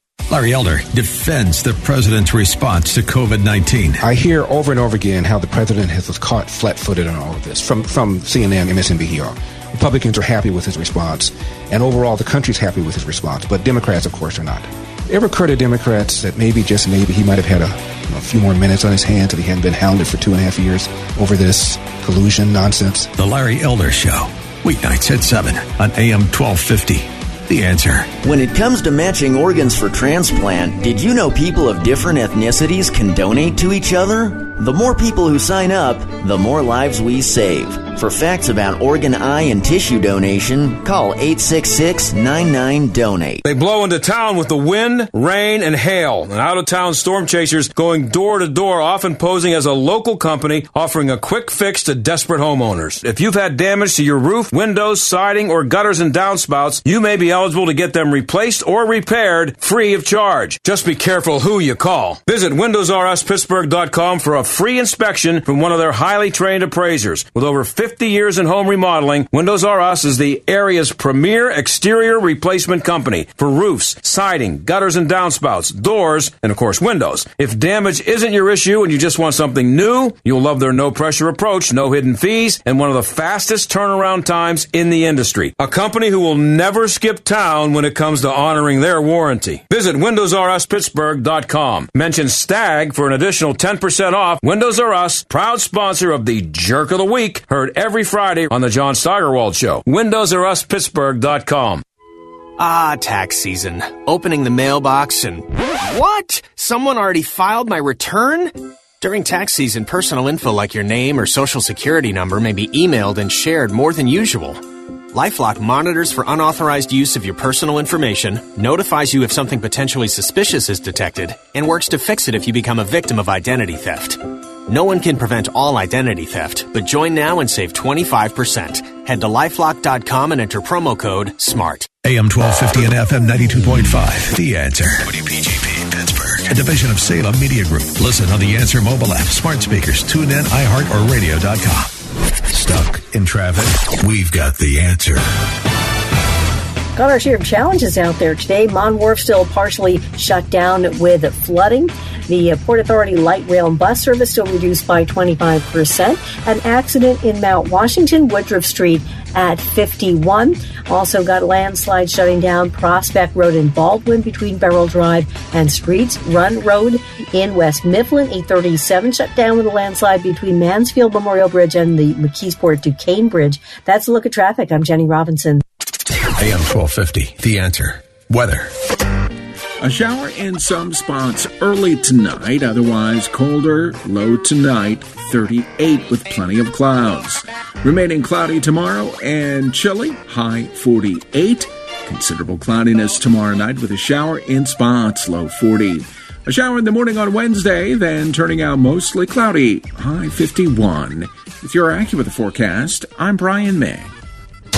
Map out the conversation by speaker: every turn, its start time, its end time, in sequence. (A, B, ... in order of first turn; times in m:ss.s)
0:00.3-0:04.0 A
0:04.0-0:23.1 B
0:23.2-0:28.1 A
0:28.2-0:43.4 C
0:43.4-1:41.8 D
1:42.6-2:11.9 E
2:12.0-2:21.9 A
2:22.5-2:25.2 A
2:26.9-2:55.6 F
2:56.3-2:58.7 A
2:59.8-3:24.1 G